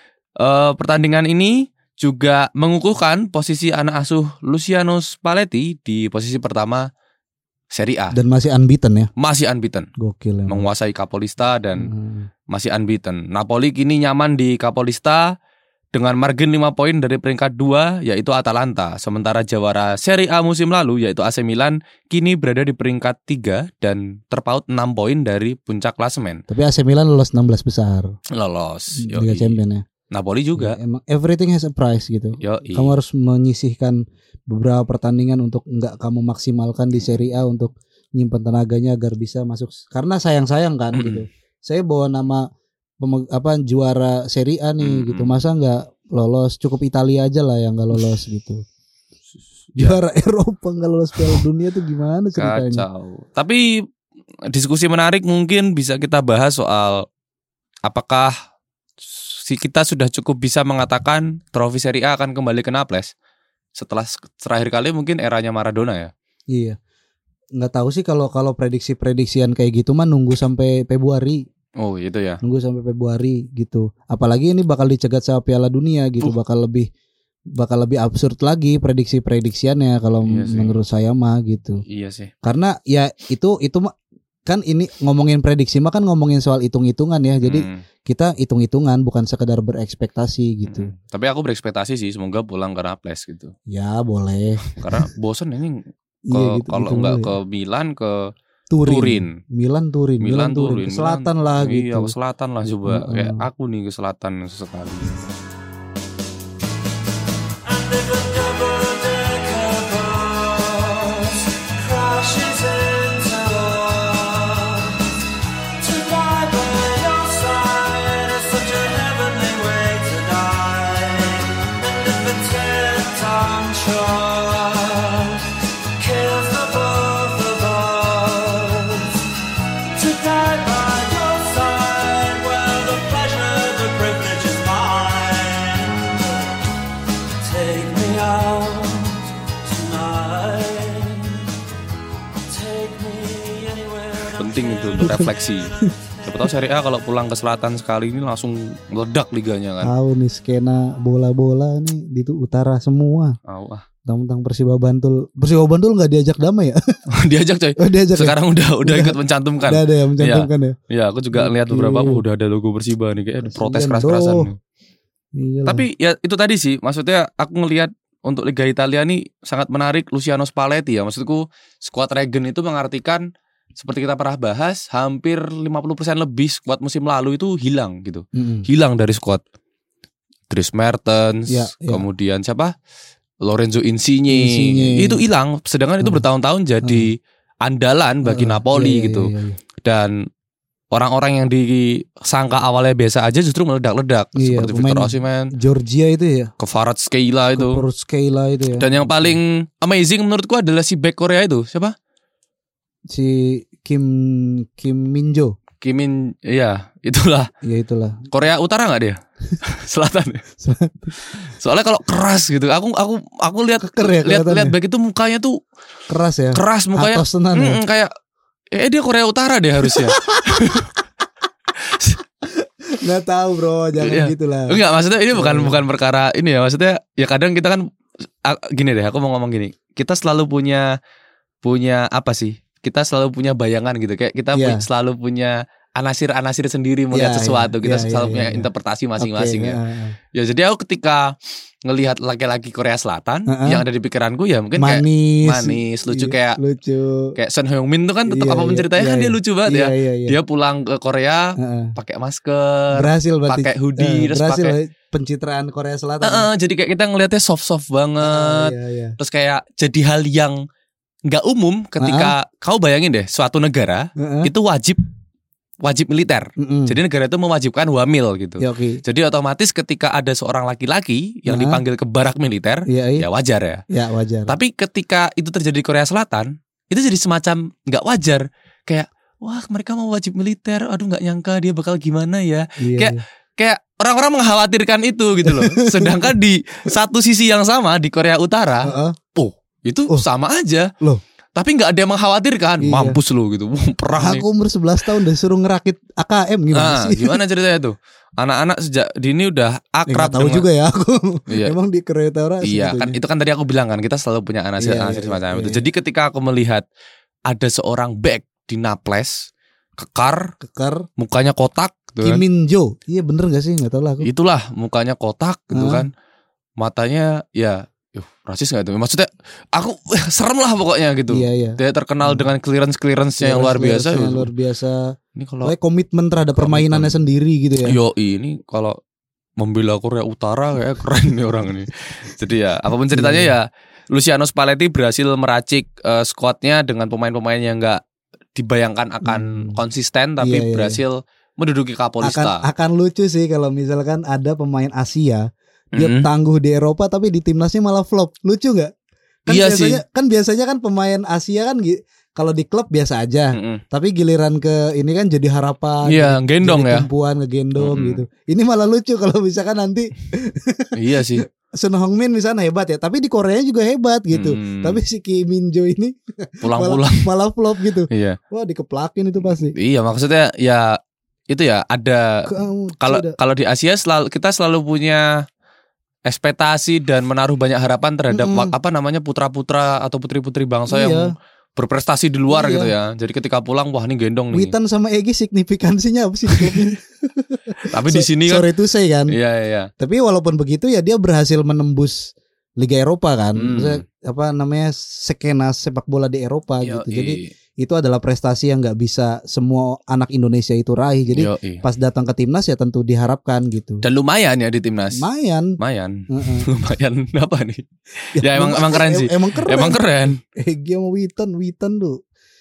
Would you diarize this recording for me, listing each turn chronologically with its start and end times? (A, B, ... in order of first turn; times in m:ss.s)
0:00.4-0:06.9 A
0:07.7-0:08.1 A
0:08.1-0:09.1 B
0:09.2-0:09.9 A
0:10.0-0:10.6 B
0:10.5-0:11.9 A
0:11.8-0:12.3 B
0:12.5-0:15.3 A
0:15.9-0:26.4 A
0:26.5-0:28.1 B
0:28.3-0:29.6 A
0:29.0-0:29.8 B
0:30.1-0:30.8 A
0:30.5-0:42.5 B
0:32.4-0:32.9 A
0:40.9-0:41.2 A
0:43.0-0:48.6 B
0:44.8-0:45.4 A
0:49.8-0:52.8 B
0:51.2-0:51.4 A
0:52.4-0:53.6 A
0:54.5-0:57.0 A
0:57.9-0:58.3 A
0:59.0-1:03.1 A
1:03.7-1:06.1 A
1:07.6-1:11.4 B
1:11.8-1:12.4 A
1:12.4-1:16.9 B
1:17.6-1:21.8 B
1:20.3-1:20.8 A
1:21.8-1:22.3 A
1:22.4-1:23.9 B
1:24.4-1:30.9 B
1:27.4-1:27.8 A
1:30.7-1:33.5 A
1:33.7-1:35.0 B
1:34.7-1:38.3 A
1:36.3-1:37.3 B
1:38.7-1:42.1 B
1:38.8-1:39.3 A
1:40.2-1:45.2 A
1:42.8-1:43.4 B
1:47.6-1:55.2 C
1:55.8-2:09.3 C
2:09.9-2:16.6 C
2:17.4-2:21.5 C
2:22.5-2:26.3 C
2:24.3-2:25.7 A
2:25.0-2:25.3 B
2:26.2-2:29.9 A
2:29.8-2:33.4 B
2:33.4-2:33.8 A
2:34.0-2:36.8 B
2:37.1-2:44.6 A
2:37.8-2:40.8 B
2:41.3-2:42.2 B
2:43.4-2:44.5 B
2:45.4-2:45.8 B
2:45.6-2:53.2 A
2:53.8-2:59.4 A
2:58.3-2:58.7 B
3:00.5-3:02.7 A
3:01.5-3:02.0 B
3:03.4-3:09.3 A
3:04.3-3:05.2 B
3:06.8-3:07.1 B
3:08.2-3:09.6 B
3:09.8-3:10.2 A
3:10.9-3:15.5 A
3:14.4-3:16.5 B
3:16.6-3:17.8 A
3:17.5-3:19.4 B
3:18.8-3:21.9 A
3:23.1-3:25.5 B
3:25.8-3:27.5 A
3:27.6-3:28.3 B
3:28.3-3:30.4 A
3:30.6-3:31.5 B
3:31.6-3:35.6 A
3:33.8-3:34.7 B
3:36.1-3:37.8 B
3:36.5-3:38.1 A
3:38.7-3:40.9 A
3:39.9-3:40.8 B
3:41.8-3:42.2 A
3:42.6-3:44.8 B
3:44.0-3:47.8 A
3:45.3-3:45.8 B
3:48.4-3:50.9 A
3:51.6-3:59.8 A
3:54.5-3:54.8 B
3:57.1-4:00.2 B
4:00.3-4:06.6 A
4:03.5-4:03.8 B
4:04.8-4:07.4 B
4:07.4-4:14.8 A
4:08.3-4:10.4 B
4:11.6-4:12.0 B
4:12.9-4:16.5 B
4:16.2-4:20.6 A
4:18.2-4:19.2 B
4:21.3-4:25.0 A
4:22.0-4:22.3 B
4:24.2-4:24.5 B
4:25.8-4:33.8 A
4:26.6-4:27.0 B
4:28.6-4:29.0 B
4:31.5-4:31.8 B
4:32.9-4:33.2 B
4:33.9-4:34.6 B
4:34.5-4:50.9 A
4:42.8-4:43.2 B
4:45.4-4:46.3 B
4:48.8-4:49.2 B
4:51.6-4:54.4 A
4:52.8-4:53.2 B
4:54.2-4:57.4 B
4:56.7-5:00.6 A
5:00.1-5:03.2 B
5:01.5-5:01.7 A
5:02.6-5:06.8 A
5:04.8-5:05.8 B
5:07.5-5:10.5 A
5:10.6-5:11.0 B
5:11.2-5:12.4 A
5:12.2-5:14.3 B
5:14.2-5:16.1 A
5:15.7-5:16.0 B
5:16.8-5:24.5 A
5:21.3-5:22.5 B
5:23.4-5:28.0 B
5:25.4-5:25.7 A
5:26.6-5:27.1 A
5:27.8-5:29.0 A
5:29.6-5:38.0 A
5:33.1-5:33.5 B
5:38.5-5:42.6 A
5:39.2-5:39.8 B
5:40.4-5:41.0 B
5:42.2-5:48.9 B
5:45.9-5:46.3 A
5:49.5-6:09.7 B
5:49.5-5:50.0 A
5:53.5-5:53.8 A
5:56.0-5:57.1 A
5:57.8-5:58.2 A
6:01.0-6:01.4 A
6:04.3-6:05.0 A
6:06.6-6:07.3 A
6:08.1-6:08.4 A
6:09.4-6:11.0 A
6:11.5-6:12.5 A
6:12.4-6:13.4 B
6:13.0-6:15.3 A
6:16.3-6:24.7 A
6:18.3-6:18.7 B
6:20.9-6:21.3 B
6:22.5-6:22.9 B
6:24.5-6:29.4 B
6:26.5-6:26.9 A
6:27.9-6:28.6 A
6:29.3-6:29.9 A
6:30.0-6:44.0 B
6:33.6-6:34.0 A
6:36.8-6:37.5 A
6:41.3-6:41.8 A
6:44.0-6:45.2 A
6:45.1-6:45.8 B
6:45.8-6:50.4 A
6:46.3-6:46.7 B
6:48.4-6:52.2 B